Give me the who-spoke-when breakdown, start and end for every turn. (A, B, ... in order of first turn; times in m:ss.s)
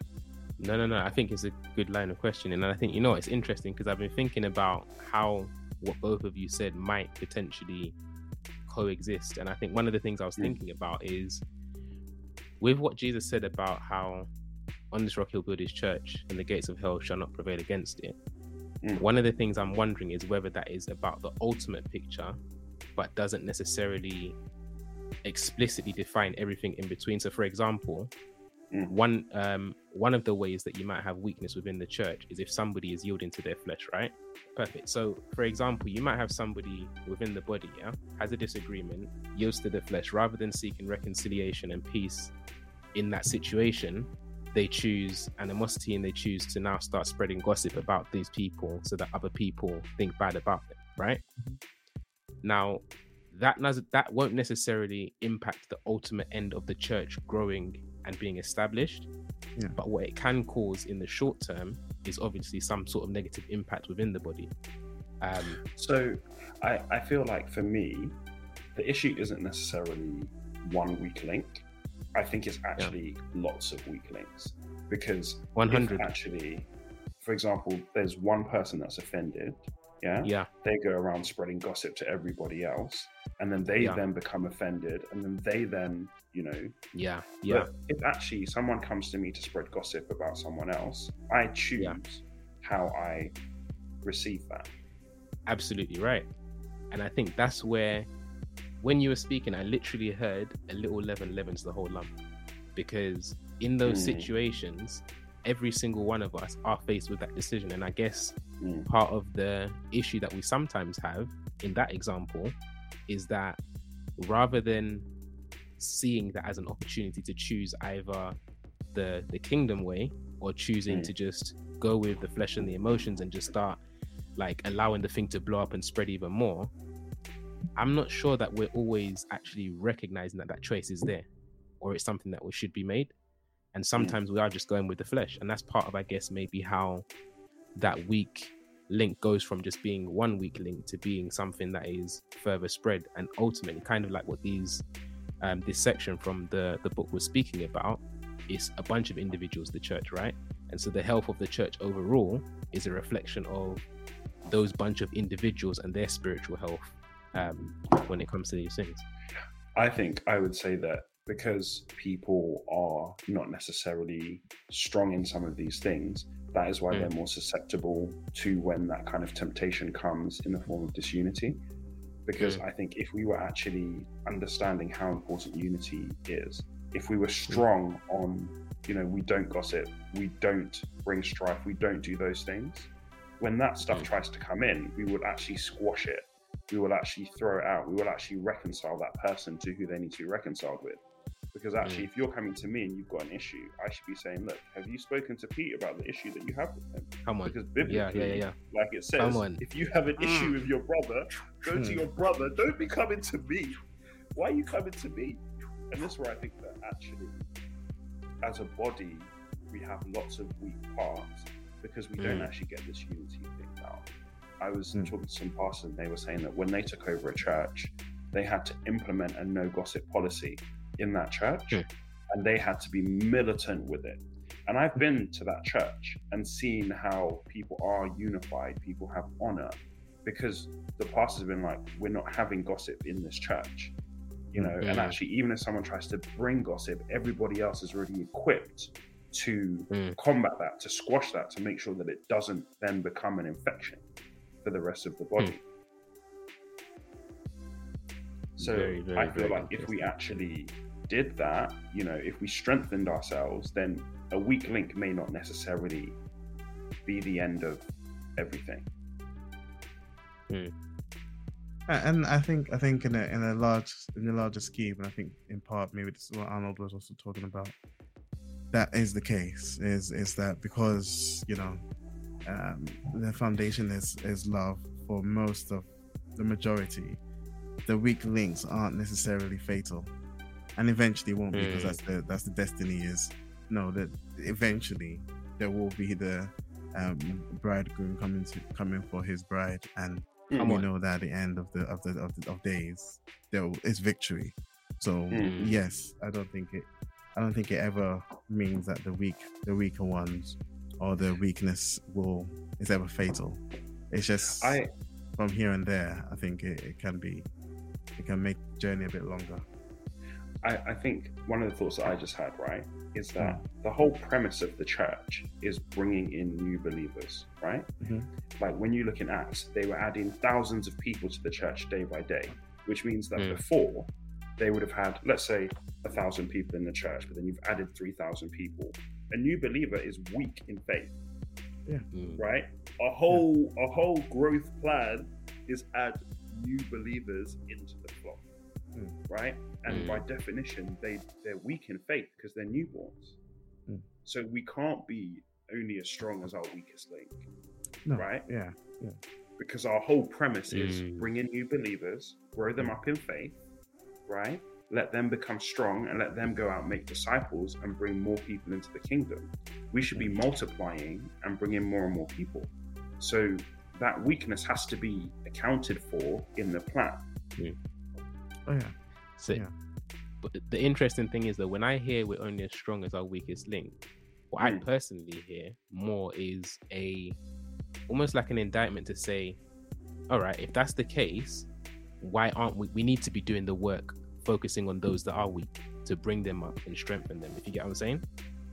0:00.6-0:08.0 A
0:08.7-0:11.4 A
0:12.6-0:14.3 A
0:14.9-0:18.2 A
0:19.0-0:22.4 A
0:23.0-0:24.4 A
0:25.2-0:28.1 A
0:28.7-0:29.0 B
0:28.9-0:42.3 A
0:42.9-0:51.2 A
0:52.4-0:59.1 A
0:59.7-1:04.5 A
1:05.2-1:05.6 A
1:05.7-1:08.2 B
1:08.7-1:11.6 B
1:12.1-1:26.7 B
1:15.5-1:16.0 A
1:26.9-1:27.7 A
1:27.5-1:33.3 B
1:34.0-1:34.7 B
1:35.5-1:36.3 A
1:36.9-1:38.1 A
1:38.8-1:42.1 A
1:42.8-1:52.6 A
1:43.8-1:44.3 B
1:48.6-1:48.9 B
1:53.1-1:53.6 A
1:54.2-1:55.1 A
1:55.8-1:58.4 A
1:58.9-2:03.8 A
2:04.4-2:06.7 A
2:07.8-2:11.3 A
2:11.8-2:13.1 A
2:13.7-2:17.0 A
2:17.8-2:24.8 A
2:25.4-2:33.8 A
2:34.5-2:39.0 A
2:39.8-2:51.6 B
2:52.2-3:11.0 B
2:52.4-2:52.6 A
3:11.5-3:23.8 B
3:17.2-3:18.5 A
3:19.2-3:19.6 A
3:21.7-3:22.0 C
3:24.3-3:27.5 B
3:28.4-3:34.1 B
3:32.2-3:32.5 A
3:34.6-3:53.9 B
3:54.6-4:04.0 B
3:54.8-3:55.2 A
3:59.9-4:00.2 A
4:04.6-4:05.6 B
4:08.6-4:10.3 A
4:08.6-4:16.2 B
4:17.0-4:18.9 B
4:21.9-4:27.7 C
4:28.7-4:31.8 C
4:32.4-4:37.2 C
4:37.8-4:40.1 C
4:40.8-5:04.8 C
4:41.5-4:42.0 A
4:50.5-4:50.8 B
4:50.6-4:50.8 A
4:55.3-4:55.6 B
4:55.4-4:55.8 A
5:04.6-5:04.9 B
5:05.4-5:07.5 C
5:08.2-5:09.6 C
5:10.6-5:17.9 B
5:13.4-5:13.6 C
5:18.0-5:18.3 C
5:18.6-5:31.1 B
5:23.4-5:23.6 A
5:32.1-5:32.4 A
5:32.4-5:38.4 B
5:39.3-5:43.4 B
5:39.9-5:40.2 A
5:44.2-5:47.4 B
5:48.0-5:49.2 C
5:48.1-5:48.5 B
5:49.6-5:53.6 B
5:50.7-5:51.3 A
5:54.3-6:07.2 B
6:08.6-6:08.9 C
6:09.4-6:09.6 A
6:10.4-6:14.0 A
6:14.5-6:17.4 A
6:18.1-6:19.6 A
6:20.3-6:21.7 A
6:22.2-6:28.2 A